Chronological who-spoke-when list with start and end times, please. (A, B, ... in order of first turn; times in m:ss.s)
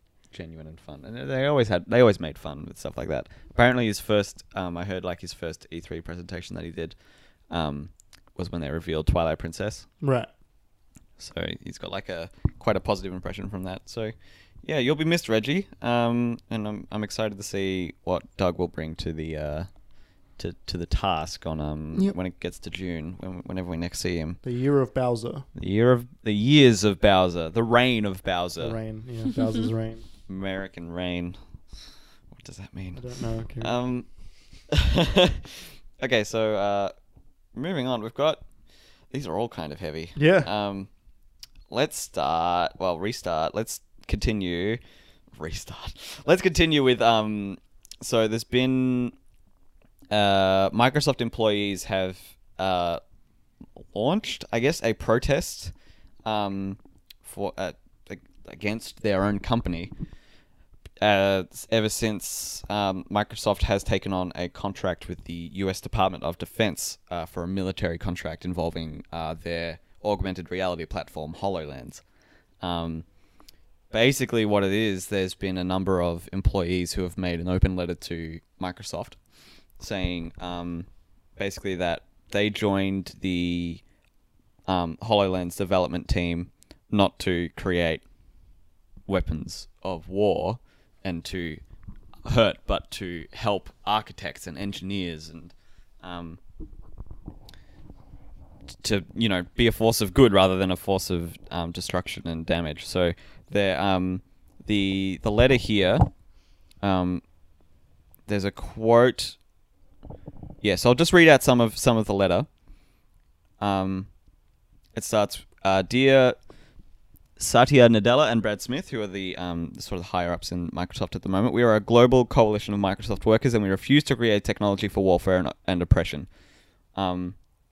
0:00.3-0:07.0 A
0:07.5-0:09.9 A
0:10.0-0:10.3 B
0:11.2-0:19.7 A
0:20.3-0:24.4 A
0:24.4-0:25.5 B
0:25.6-0:28.8 A
0:28.6-0:30.0 B
0:30.3-0:31.4 A
0:32.3-0:36.9 A
0:33.0-0:33.8 B
0:37.5-0:38.4 A
0:39.1-0:40.9 A
0:40.2-0:40.5 B
0:41.7-0:44.8 A
0:45.4-0:49.2 A
0:50.1-0:53.0 A
0:53.9-0:55.7 A
0:56.2-0:59.9 A
1:01.0-1:12.0 A
1:12.6-1:13.1 A
1:13.9-1:19.2 A
1:19.8-1:23.8 A
1:24.7-1:28.0 A
1:29.1-1:31.6 A
1:32.2-1:36.4 A
1:38.8-1:46.1 A
1:46.8-1:47.2 A
1:48.3-1:49.4 A
1:50.6-1:52.5 A
1:53.6-1:54.1 A
1:54.9-1:56.4 A
1:57.4-2:06.3 A
2:07.0-2:07.4 A